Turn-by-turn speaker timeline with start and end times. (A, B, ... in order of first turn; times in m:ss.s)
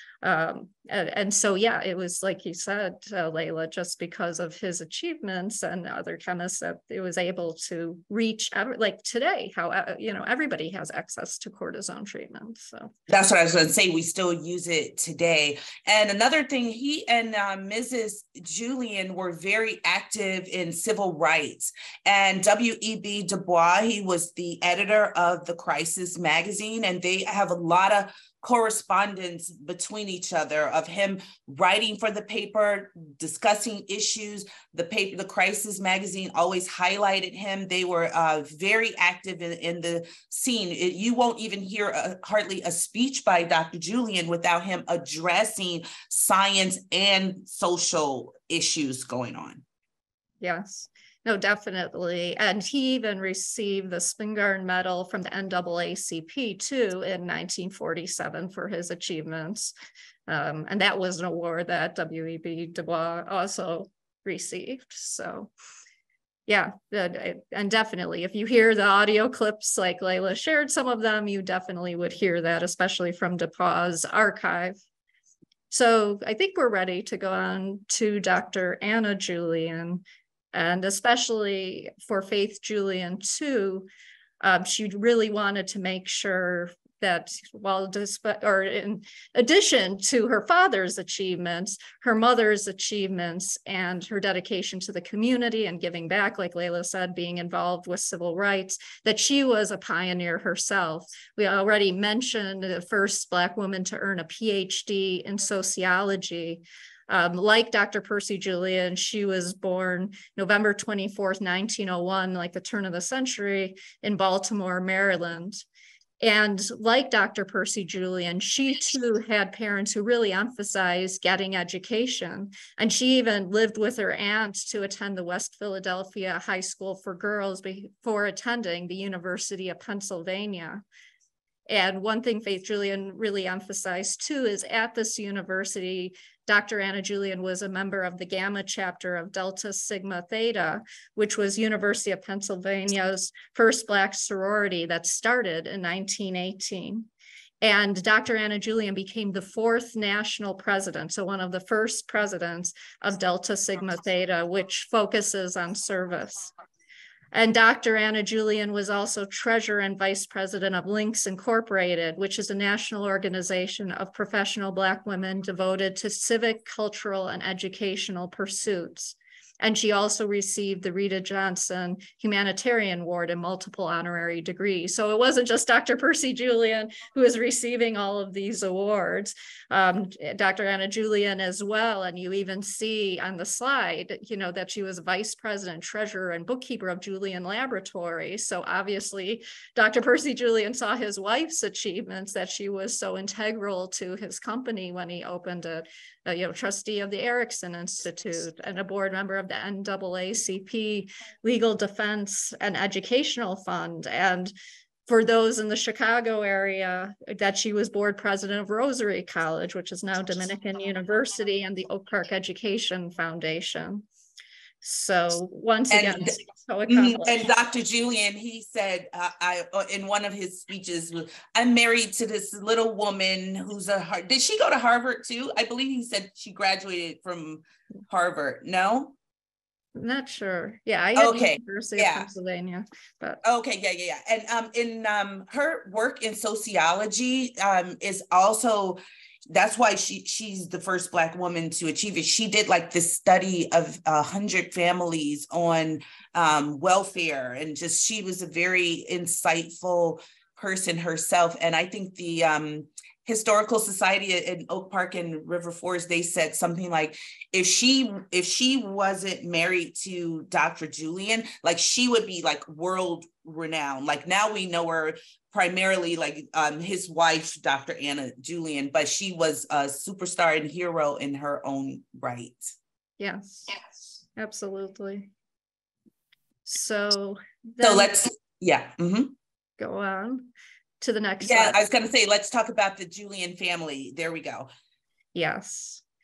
0:00.2-0:12.9 A
0:13.1-0:49.6 B
0:50.4-0:59.7 A
1:00.3-1:05.5 A
1:06.5-1:14.8 A
1:15.7-1:23.9 A
1:24.4-1:55.6 A
1:56.2-2:10.8 A
2:11.7-2:27.1 A
2:27.6-2:36.5 A
2:37.3-3:24.5 A
3:25.1-3:34.0 A
3:34.8-3:37.4 A
3:35.9-3:36.3 B
3:36.9-3:49.2 B
3:50.0-3:53.4 A
3:51.2-3:52.3 B
3:53.4-3:59.0 B
3:59.5-4:32.7 B
4:33.2-4:35.3 A
4:36.7-4:38.2 A
4:37.8-4:39.3 B
4:39.8-4:40.5 A
4:41.0-4:41.8 A
4:41.4-4:44.7 B
4:45.4-4:46.0 A